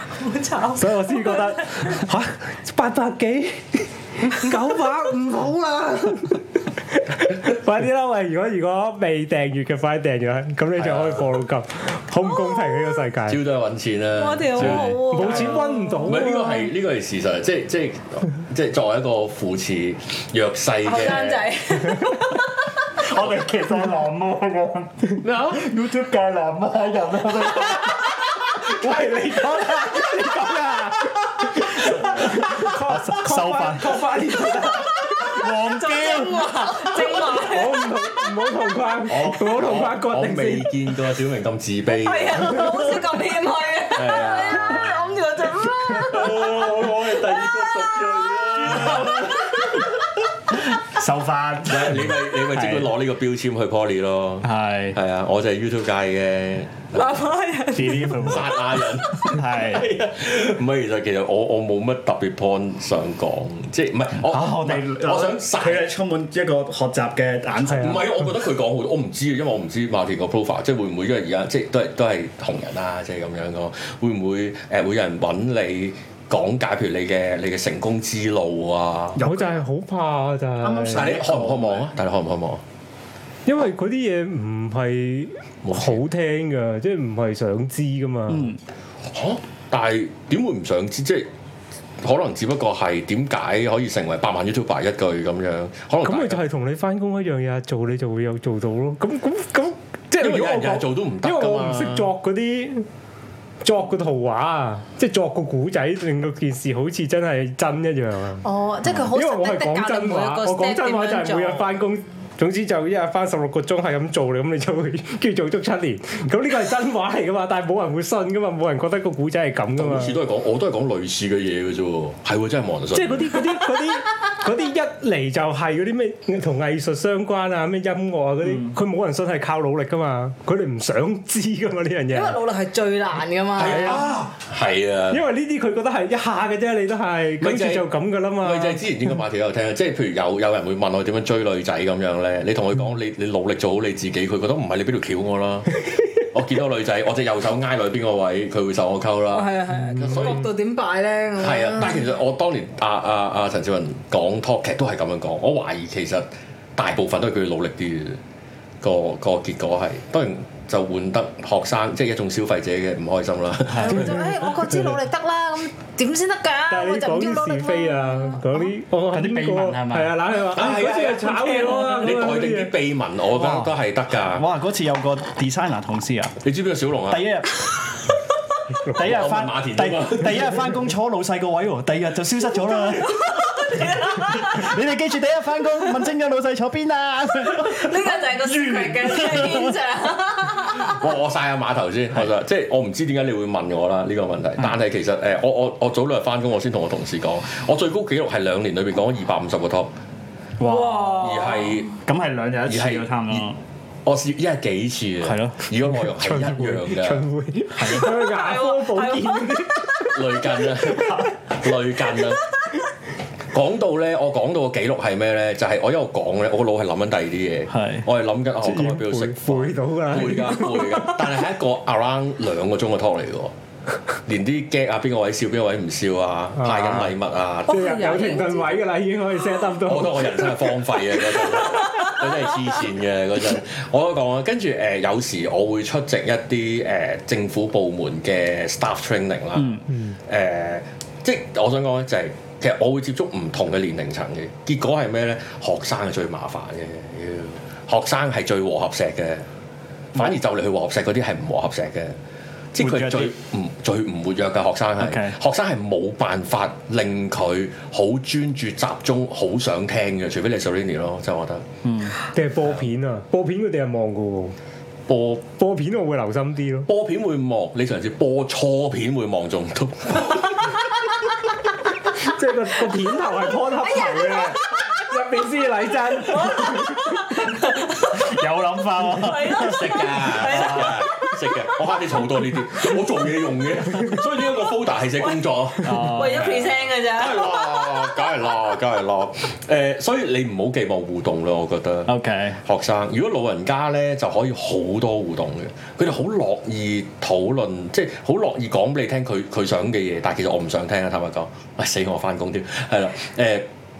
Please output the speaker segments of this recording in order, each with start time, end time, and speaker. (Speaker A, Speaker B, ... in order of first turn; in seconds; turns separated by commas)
Speaker A: 0.2-2.0, Speaker B: 0.8-13.4, Speaker C: 10.8-11.3, Speaker C: 13.3-21.5, Speaker A: 14.2-16.5, Speaker D: 14.5-15.0, Speaker B: 15.0-16.7, Speaker A: 20.8-22.6, Speaker D: 22.9-28.1, Speaker C: 25.2-25.6, Speaker B: 28.3-35.3, Speaker D: 31.7-34.1, Speaker D: 35.2-36.5, Speaker A: 35.2-37.9, Speaker B: 37.4-40.7, Speaker C: 39.1-42.6, Speaker A: 41.9-46.4, Speaker C: 43.9-45.0, Speaker C: 45.9-49.3, Speaker D: 46.0-49.3, Speaker A: 48.7-49.9, Speaker D: 50.5-52.9, Speaker C: 51.7-57.2, Speaker D: 54.4-55.0, Speaker A: 56.9-58.4, Speaker D: 57.7-58.6, Speaker C: 58.2-65.9, Speaker D: 59.1-59.9, Speaker D: 64.2-68.2, Speaker B: 67.6-68.0, Speaker C: 67.8-79.2, Speaker D: 79.1-79.6, Speaker B: 79.2-81.1, Speaker D: 80.6-81.8, Speaker C: 80.9-82.6, Speaker B: 83.5-88.5, Speaker C: 85.6-86.0, Speaker D: 88.3-88.6, Speaker C: 89.1-91.3, Speaker C: 92.0-96.4, Speaker B: 96.0-102.8, Speaker C: 100.2-102.1, Speaker B: 103.6-108.5, Speaker A: 108.4-111.7, Speaker B: 109.0-120.1, Speaker C: 119.8-123.4, Speaker B: 122.9-132.4, Speaker A: 132.1-134.0, Speaker C: 133.6-135.2, Speaker B: 133.7-134.1, Speaker B: 135.1-138.8, Speaker C: 137.4-137.9, Speaker C: 138.4-150.5, Speaker A: 149.3-152.0, Speaker C: 151.4-158.2, Speaker C: 158.8-164.5, Speaker D: 163.7-164.2, Speaker A: 163.7-168.7, Speaker B: 166.7-172.7, Speaker D: 169.1-170.2, Speaker C: 170.4-174.4, Speaker D: 173.3-173.7, Speaker D: 174.3-176.4, Speaker C: 176.4-177.3, Speaker D: 177.1-177.7, Speaker D: 178.9-189.7, Speaker C: 178.9-180.7, Speaker A: 182.7-184.7, Speaker A: 187.5-191.0, Speaker C: 190.7-199.9, Speaker D: 200.6-201.4, Speaker A: 200.6-201.8, Speaker C: 201.1-201.9, Speaker D: 202.0-203.6, Speaker C: 202.7-203.5, Speaker C: 204.0-207.2, Speaker D: 205.2-205.6, Speaker B: 206.2-211.2, Speaker D: 207.8-208.2, Speaker A: 208.0-209.6, Speaker C: 210.1-212.4, Speaker C: 213.5-223.5, Speaker D: 217.7-218.0, Speaker B: 218.6-221.2, Speaker C: 224.2-227.9, Speaker B: 226.6-227.1, Speaker A: 227.7-228.8, Speaker B: 227.7-230.5, Speaker C: 229.8-249.4, Speaker D: 239.6-239.8, Speaker C: 250.1-252.2, Speaker C: 252.7-261.6, Speaker D: 252.8-253.3, Speaker D: 255.0-255.3, Speaker D: 261.8-262.2, Speaker B: 262.3-264.5, Speaker C: 265.1-265.4, Speaker B: 265.5-266.9, Speaker C: 266.9-270.8, Speaker B: 272.2-277.5, Speaker A: 273.8-275.1, Speaker A: 276.2-278.3, Speaker D: 278.1-281.0, Speaker A: 279.0-281.8, Speaker C: 279.5-286.5, Speaker A: 285.2-287.9, Speaker D: 285.8-286.7, Speaker C: 287.1-303.6, Speaker D: 292.1-292.6